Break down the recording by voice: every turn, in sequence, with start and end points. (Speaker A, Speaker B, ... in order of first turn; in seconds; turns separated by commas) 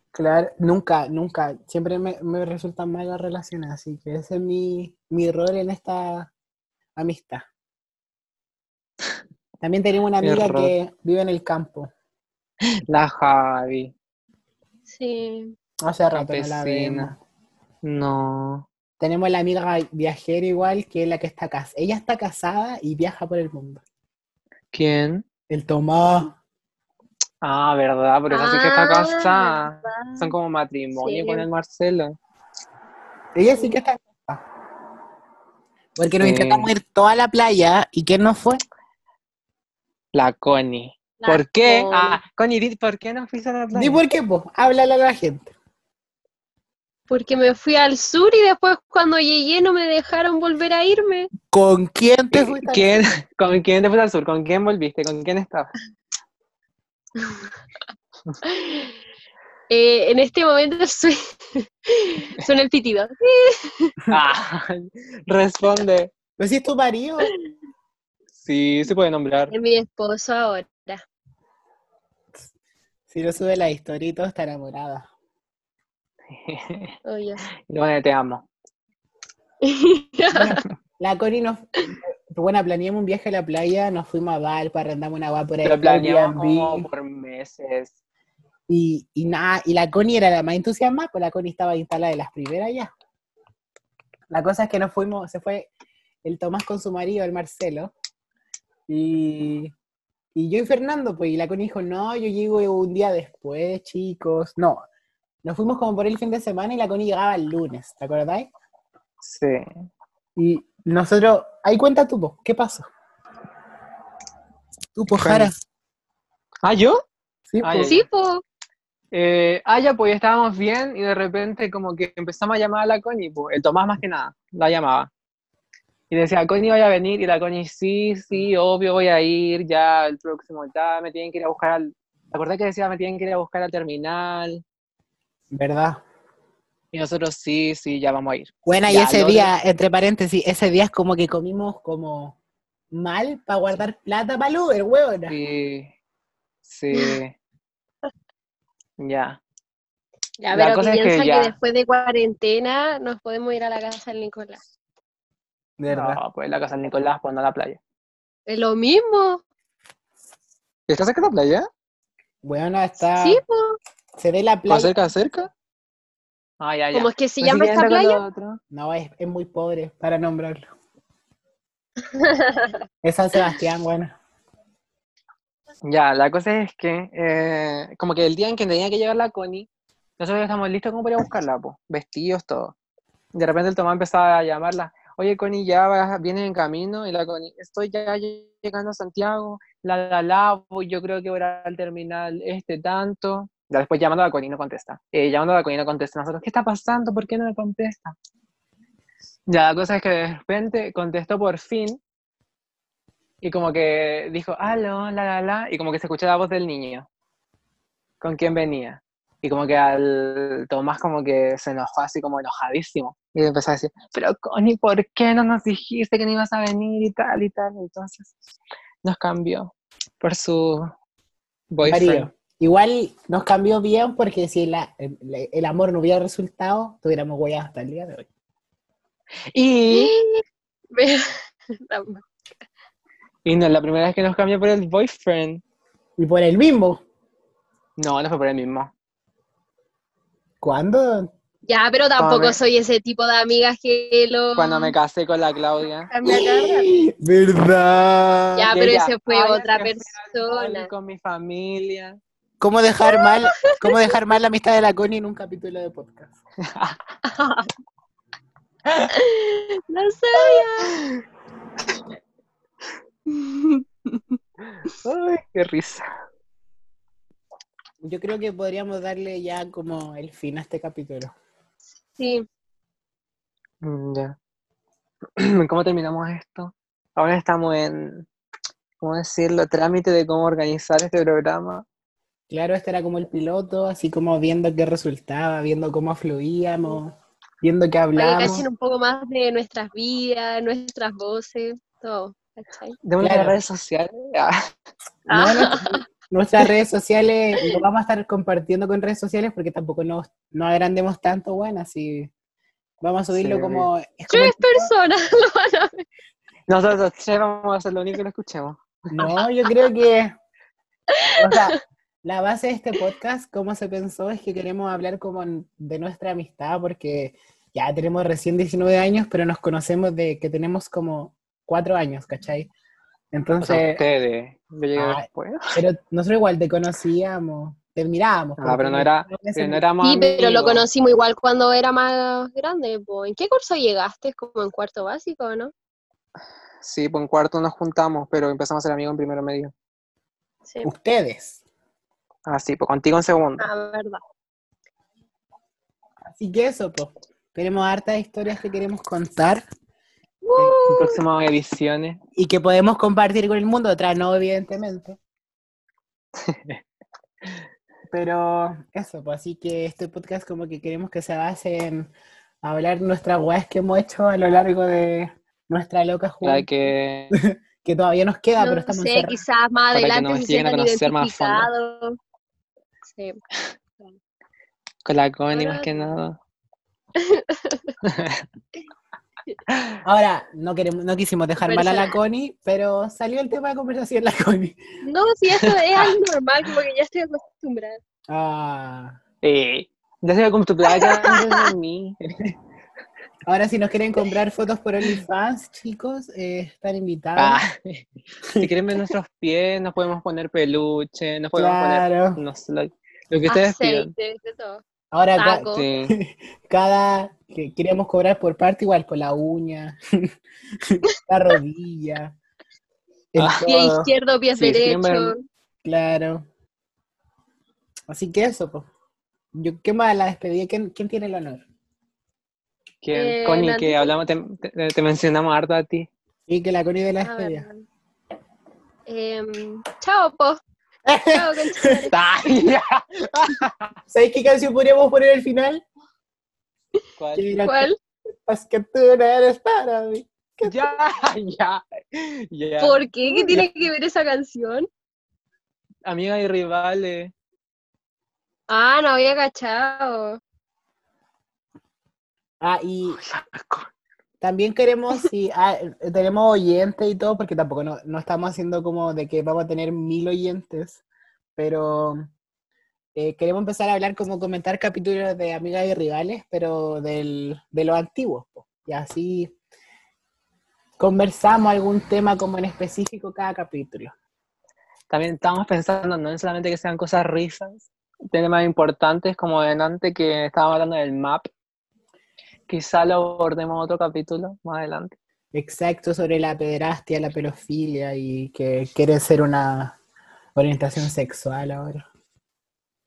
Speaker A: 0.1-6.3, Speaker A: 7.0-7.5, Speaker A: 9.6-11.9, Speaker B: 10.2-10.7, Speaker B: 12.9-13.9, Speaker C: 14.9-15.6, Speaker A: 15.8-17.2, Speaker B: 16.1-17.1, Speaker B: 17.8-18.7, Speaker A: 19.0-23.8, Speaker B: 24.7-25.2, Speaker A: 25.5-26.4, Speaker B: 27.4-32.2, Speaker C: 28.3-30.3, Speaker C: 31.0-31.5, Speaker A: 33.4-34.4, Speaker A: 36.0-38.6, Speaker B: 36.2-36.7, Speaker B: 40.1-44.0, Speaker C: 41.2-42.2, Speaker A: 43.7-45.5, Speaker C: 47.1-51.3, Speaker A: 51.5-53.1, Speaker B: 52.3-55.7, Speaker C: 58.4-58.9, Speaker C: 59.7-63.9, Speaker B: 64.1-66.1, Speaker A: 66.4-67.3, Speaker B: 68.4-69.5, Speaker C: 69.5-71.0, Speaker A: 73.1-75.1, Speaker B: 76.3-77.0, Speaker C: 77.1-77.5, Speaker B: 77.7-78.5, Speaker C: 79.6-80.6, Speaker A: 80.3-86.9, Speaker B: 85.6-88.0, Speaker A: 88.7-92.9, Speaker A: 94.3-95.7, Speaker A: 96.2-97.9, Speaker A: 98.9-99.7, Speaker A: 100.3-104.8, Speaker A: 105.4-108.5, Speaker B: 109.2-109.6, Speaker A: 110.4-112.9, Speaker A: 115.0-115.5, Speaker B: 115.2-115.5, Speaker B: 116.6-117.0, Speaker A: 117.5-118.0, Speaker B: 117.6-118.0, Speaker C: 117.8-118.4, Speaker B: 119.1-125.1, Speaker B: 126.1-134.6, Speaker A: 135.5-136.0, Speaker B: 136.9-139.5, Speaker A: 138.7-142.4, Speaker A: 142.9-145.4, Speaker B: 145.3-145.9, Speaker B: 146.7-147.3, Speaker C: 146.9-147.2, Speaker B: 149.0-149.4, Speaker C: 150.4-154.6, Speaker B: 150.5-151.6, Speaker A: 155.8-156.2, Speaker B: 155.9-157.8, Speaker C: 158.5-159.4, Speaker B: 160.9-161.7, Speaker A: 162.4-163.4, Speaker C: 163.2-163.8, Speaker A: 164.2-164.9, Speaker B: 164.7-165.5, Speaker B: 166.6-168.6, Speaker C: 166.9-168.2, Speaker A: 168.7-170.7, Speaker C: 172.2-172.8, Speaker A: 173.0-174.2, Speaker B: 175.8-182.8, Speaker B: 183.3-198.2, Speaker B: 199.5-202.0, Speaker B: 203.4-207.1, Speaker B: 208.2-218.3, Speaker B: 219.0-220.9, Speaker B: 221.7-222.3, Speaker A: 221.8-228.3, Speaker B: 229.5-230.1, Speaker C: 229.9-232.2, Speaker B: 233.4-235.6, Speaker A: 236.2-237.0, Speaker B: 238.0-238.9, Speaker A: 240.6-241.3, Speaker C: 241.7-244.9, Speaker A: 242.2-242.6, Speaker B: 244.6-246.1, Speaker C: 246.1-246.9, Speaker A: 246.3-248.9, Speaker C: 248.6-250.9, Speaker B: 248.7-252.2, Speaker A: 252.6-256.4, Speaker C: 253.1-253.4, Speaker B: 256.7-257.0, Speaker C: 257.2-257.7, Speaker C: 259.1-261.0, Speaker C: 263.3-264.4, Speaker B: 264.8-266.1, Speaker A: 268.0-271.3, Speaker C: 272.2-272.4, Speaker B: 273.8-274.4, Speaker B: 275.4-278.3, Speaker B: 279.0-281.9, Speaker A: 282.5-288.7, Speaker C: 288.2-293.0, Speaker B: 293.1-294.7, Speaker A: 293.2-293.6, Speaker C: 295.3-296.0, Speaker A: 295.3-302.3, Speaker A: 303.0-304.9, Speaker B: 303.3-303.9, Speaker C: 304.3-306.1, Speaker B: 306.7-308.8, Speaker A: 309.1-310.4, Speaker C: 311.1-311.8, Speaker A: 311.4-322.7, Speaker A: 323.3-324.0, Speaker B: 323.6-325.8, Speaker A: 325.0-329.8, Speaker B: 328.6-330.9, Speaker C: 330.0-335.7, Speaker B: 336.8-339.7, Speaker A: 340.8-341.6, Speaker B: 342.5-343.7, Speaker C: 343.6-344.2, Speaker A: 346.3-349.6, Speaker C: 350.4-351.2, Speaker B: 350.9-352.2, Speaker A: 352.4-355.2, Speaker B: 356.5-356.8, Speaker A: 358.1-362.1, Speaker A: 362.6-366.7, Speaker B: 366.4-367.4, Speaker A: 367.3-369.4, Speaker C: 368.6-372.2, Speaker B: 369.9-371.7, Speaker C: 373.1-373.4, Speaker B: 375.1-376.4, Speaker C: 375.5-376.2, Speaker C: 377.2-378.0, Speaker B: 378.1-378.4, Speaker B: 379.7-380.0, Speaker A: 380.0-384.8, Speaker C: 381.6-382.1, Speaker C: 385.0-388.0, Speaker B: 385.6-386.1, Speaker A: 388.3-389.2, Speaker B: 389.4-392.2, Speaker C: 390.9-391.7, Speaker A: 393.5-397.6, Speaker B: 397.4-398.1, Speaker B: 398.6-404.1, Speaker A: 401.6-402.4, Speaker C: 403.5-404.8, Speaker A: 405.1-410.0, Speaker C: 405.4-405.9, Speaker B: 405.7-406.1, Speaker A: 410.9-412.4, Speaker A: 413.3-414.1, Speaker B: 413.4-413.7, Speaker C: 413.7-415.4, Speaker B: 414.5-415.3, Speaker A: 415.8-416.5, Speaker A: 418.1-418.9, Speaker A: 419.5-421.6, Speaker B: 423.0-426.1, Speaker C: 423.1-424.1, Speaker A: 426.5-427.7, Speaker C: 427.2-427.8, Speaker C: 429.1-430.6, Speaker A: 431.1-432.0, Speaker C: 431.3-432.2, Speaker B: 432.1-433.9, Speaker A: 434.1-435.8, Speaker B: 437.2-437.6, Speaker A: 437.4-437.9, Speaker C: 437.6-438.0, Speaker A: 438.5-441.0, Speaker B: 440.6-443.7, Speaker C: 442.8-444.9, Speaker B: 446.1-447.3, Speaker C: 448.7-450.4, Speaker A: 452.6-453.2, Speaker B: 453.1-453.9, Speaker A: 454.4-461.0, Speaker A: 461.6-462.3, Speaker A: 463.2-469.5, Speaker A: 471.0-474.1, Speaker B: 475.1-481.5, Speaker B: 482.7-485.2, Speaker A: 485.5-490.0, Speaker A: 490.6-492.1